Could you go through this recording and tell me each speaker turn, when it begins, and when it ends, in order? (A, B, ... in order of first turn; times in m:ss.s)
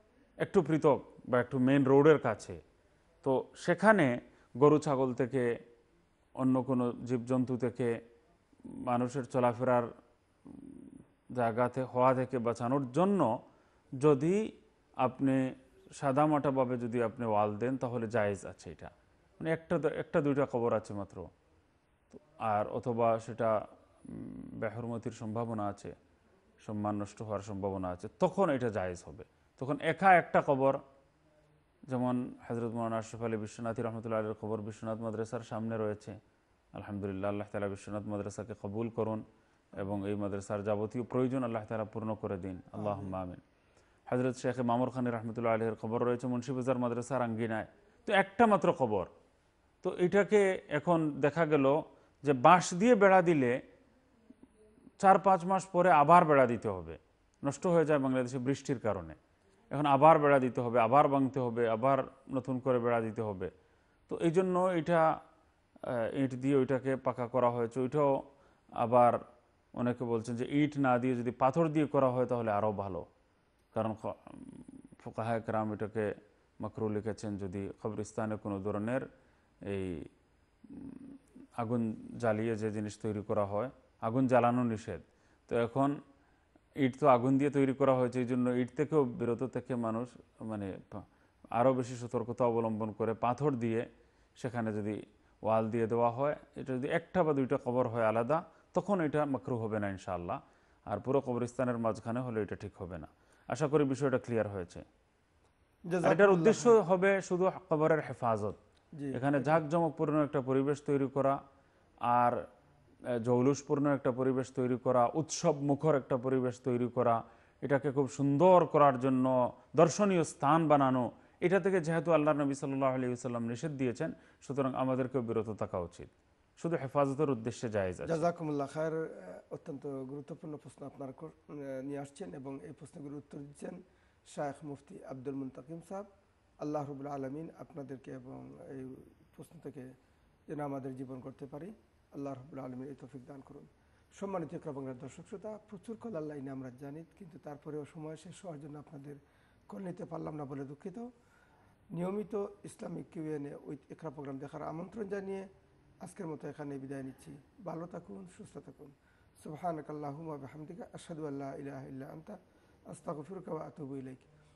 0:00.4-0:02.6 A
0:03.2-0:05.4 A
0:06.4-0:07.9 A
0:08.7-0:09.9 A
0:10.5-0:13.3 A
0:14.0-0:14.4 A
0:15.0-0:15.4 A
0:16.0-0:21.3 A
0:22.1-0:23.6 A
0:24.1-0:25.9 A
0:26.6-0:30.8 A
0:31.9-0:36.2 A
0:36.8-0:39.2 A
0:39.8-0:43.4 A
0:42.7-0:43.2 B
0:44.1-0:49.1 A
0:49.8-0:53.6 A
0:55.0-0:59.2 A
0:59.7-1:03.5 A
1:04.1-1:05.1 A
1:05.8-1:08.2 A
1:08.8-1:09.2 A
1:09.8-1:13.1 A
1:13.7-1:19.0 A
1:19.6-1:20.1 A
1:20.7-1:26.0 A
1:26.8-1:33.9 A
1:34.4-1:44.8 A
1:45.9-1:46.8 B
1:46.0-1:48.6 A
1:48.9-1:49.6 B
1:49.1-1:51.4 A
1:52.0-1:52.4 A
1:53.2-2:08.2 A
2:08.0-2:16.1 B
2:16.6-2:19.9 B
2:20.5-2:31.1 B
2:31.9-2:35.5 B
2:36.0-2:42.4 B
2:42.9-2:44.3 B